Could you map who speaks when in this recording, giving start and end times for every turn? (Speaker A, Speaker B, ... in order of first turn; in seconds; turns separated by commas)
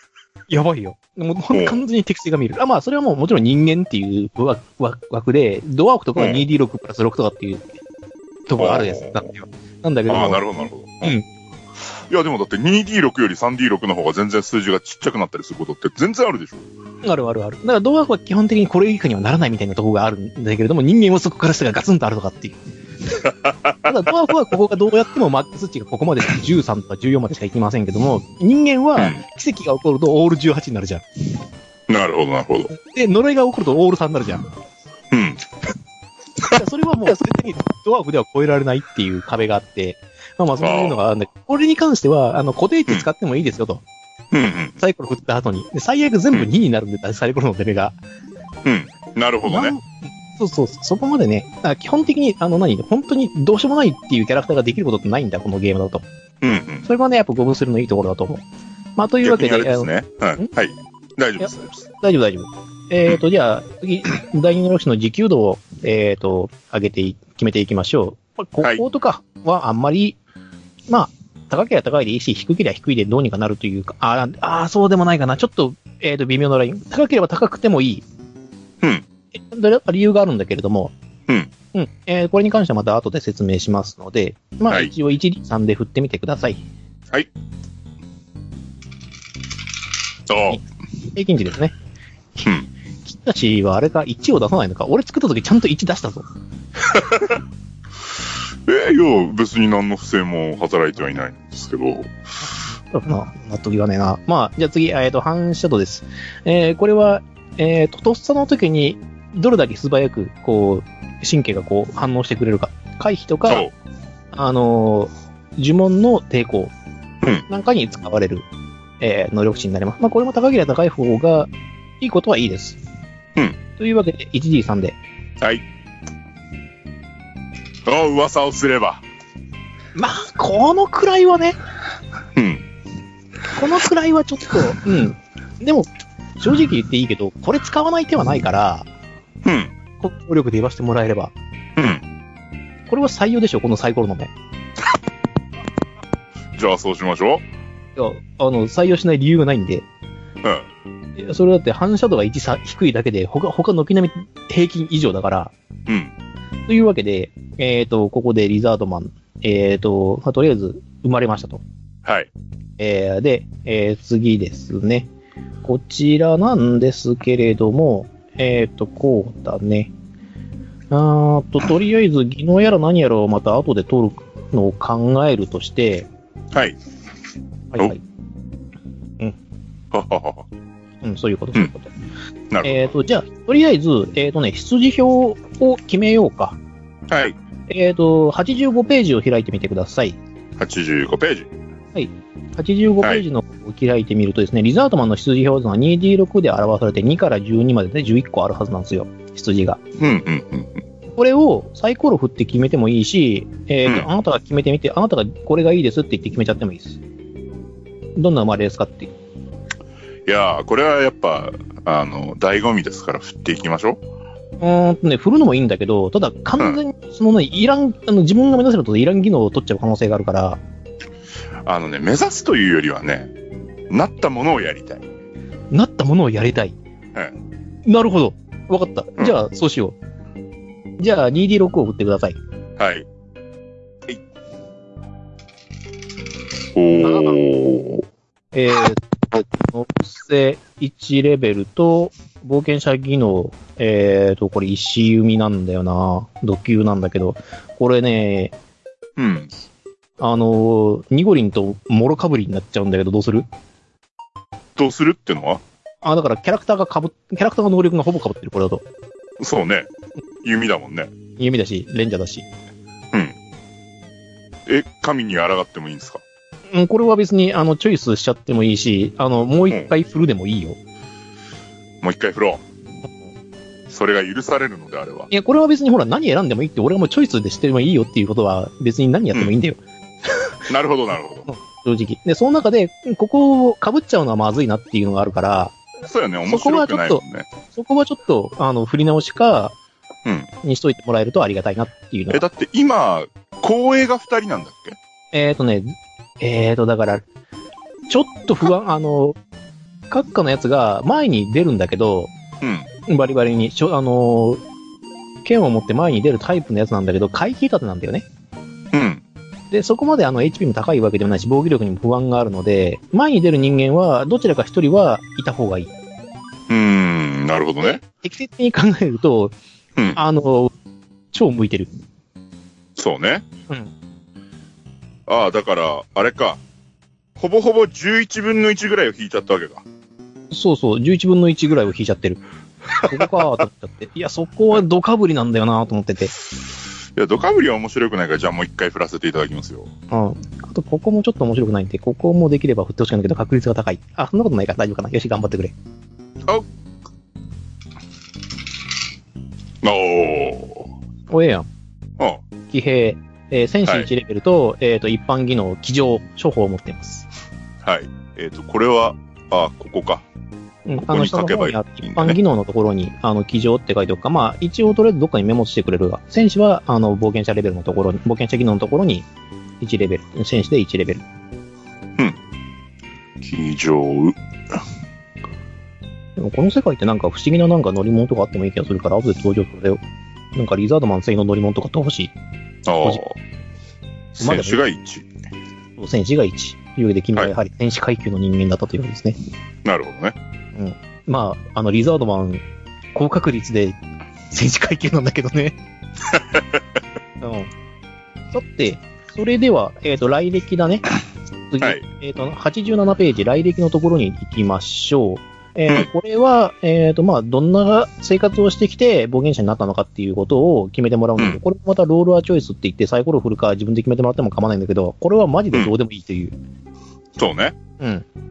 Speaker A: 0.5-7.6, Speaker B: 1.5-1.8, Speaker B: 6.2-6.4, Speaker A: 8.5-11.2, Speaker B: 8.6-9.3, Speaker B: 10.1-11.2, Speaker B: 12.1-16.7, Speaker A: 17.0-22.6, Speaker B: 23.2-23.7, Speaker A: 23.8-31.0, Speaker B: 31.9-32.7, Speaker A: 32.7-34.5, Speaker B: 35.1-35.4, Speaker A: 36.4-43.8, Speaker B: 40.6-41.0, Speaker B: 44.3-44.8, Speaker A: 44.8-48.0, Speaker B: 48.6-49.8, Speaker A: 49.5-56.0, Speaker B: 56.4-56.9, Speaker A: 56.8-58.4, Speaker A: 59.0-60.5, Speaker B: 59.2-61.8, Speaker A: 61.4-70.2, Speaker A: 70.9-78.0, Speaker B: 78.8-79.0, Speaker A: 79.3-80.9, Speaker A: 81.7-86.6, Speaker B: 90.3-90.6, Speaker A: 90.5-91.7, Speaker A: 93.0-96.3, Speaker B: 97.0-97.3, Speaker B: 98.7-102.1, Speaker A: 102.9-113.7, Speaker A: 114.3-116.7, Speaker A: 117.5-118.5, Speaker A: 119.0-121.5, Speaker A: 122.0-122.8, Speaker A: 123.8-125.0, Speaker B: 125.4-125.6, Speaker B: 127.8-129.0, Speaker A: 129.9-131.6, Speaker B: 132.3-132.7, Speaker A: 133.5-135.9, Speaker A: 136.4-138.9, Speaker B: 139.4-139.7, Speaker A: 140.0-141.3, Speaker B: 141.8-142.0, Speaker A: 142.9-144.3, Speaker B: 146.5-147.4, Speaker A: 147.9-149.8, Speaker B: 150.4-150.7, Speaker A: 151.2-155.5, Speaker B: 155.9-156.1, Speaker A: 156.7-161.6, Speaker B: 162.0-162.3, Speaker A: 162.8-165.1, Speaker A: 165.6-169.9, Speaker A: 170.9-176.1, Speaker B: 176.5-176.8, Speaker A: 177.7-178.0, Speaker B: 179.9-180.5, Speaker A: 181.0-181.9, Speaker B: 182.5-182.9, Speaker A: 182.6-186.6, Speaker B: 187.1-187.4, Speaker A: 187.7-190.2, Speaker B: 190.6-191.5, Speaker A: 191.9-199.8, Speaker B: 200.0-200.8, Speaker A: 201.1-207.0, Speaker A: 208.2-209.1, Speaker B: 210.2-214.0, Speaker A: 214.6-220.6, Speaker B: 221.6-223.3, Speaker B: 223.9-225.0, Speaker A: 225.7-226.7, Speaker A: 227.8-229.9, Speaker A: 231.0-232.4, Speaker B: 232.8-233.1, Speaker B: 236.7-238.1, Speaker A: 236.9-237.4, Speaker A: 238.5-248.5, Speaker B: 249.2-249.5, Speaker A: 250.2-253.5, Speaker B: 254.8-255.6, Speaker A: 256.0-258.8, Speaker B: 259.4-259.9, Speaker B: 260.4-261.1, Speaker A: 261.4-262.4, Speaker B: 263.1-263.4, Speaker B: 264.6-266.2, Speaker A: 266.7-270.8, Speaker B: 272.0-272.6, Speaker B: 273.9-275.3, Speaker A: 275.3-280.5, Speaker B: 280.7-281.5, Speaker A: 281.5-285.8, Speaker B: 286.1-287.5, Speaker A: 286.5-289.7, Speaker A: 290.6-292.4, Speaker B: 292.3-295.0, Speaker A: 295.3-297.2, Speaker A: 298.1-299.4, Speaker A: 300.1-302.3, Speaker B: 302.6-302.9, Speaker A: 303.1-304.6, Speaker A: 305.4-308.2, Speaker B: 308.9-309.2, Speaker A: 309.7-315.9, Speaker B: 316.7-318.0, Speaker A: 317.8-319.5, Speaker A: 320.1-320.7, Speaker A: 321.3-321.9, Speaker B: 322.9-323.4, Speaker B: 325.3-326.6, Speaker B: 327.4-329.8, Speaker A: 330.5-332.4, Speaker A: 333.0-336.3, Speaker B: 337.1-339.9, Speaker A: 340.1-345.7, Speaker B: 349.8-350.9, Speaker A: 351.3-351.6, Speaker A: 352.7-357.3, Speaker B: 357.8-360.2, Speaker A: 360.9-369.2, Speaker B: 361.1-362.4, Speaker A: 369.8-371.2, Speaker B: 373.4-374.8, Speaker A: 376.4-380.0, Speaker A: 380.5-382.3, Speaker B: 382.9-383.4, Speaker B: 384.4-385.3, Speaker A: 384.4-384.8, Speaker A: 386.0-389.4, Speaker B: 389.8-390.4, Speaker A: 390.7-392.6, Speaker A: 393.1-394.0, Speaker A: 394.5-395.8, Speaker B: 396.3-396.8, Speaker A: 397.4-397.7, Speaker A: 398.5-401.1, Speaker A: 401.7-416.5, Speaker B: 417.4-417.8, Speaker A: 418.0-418.2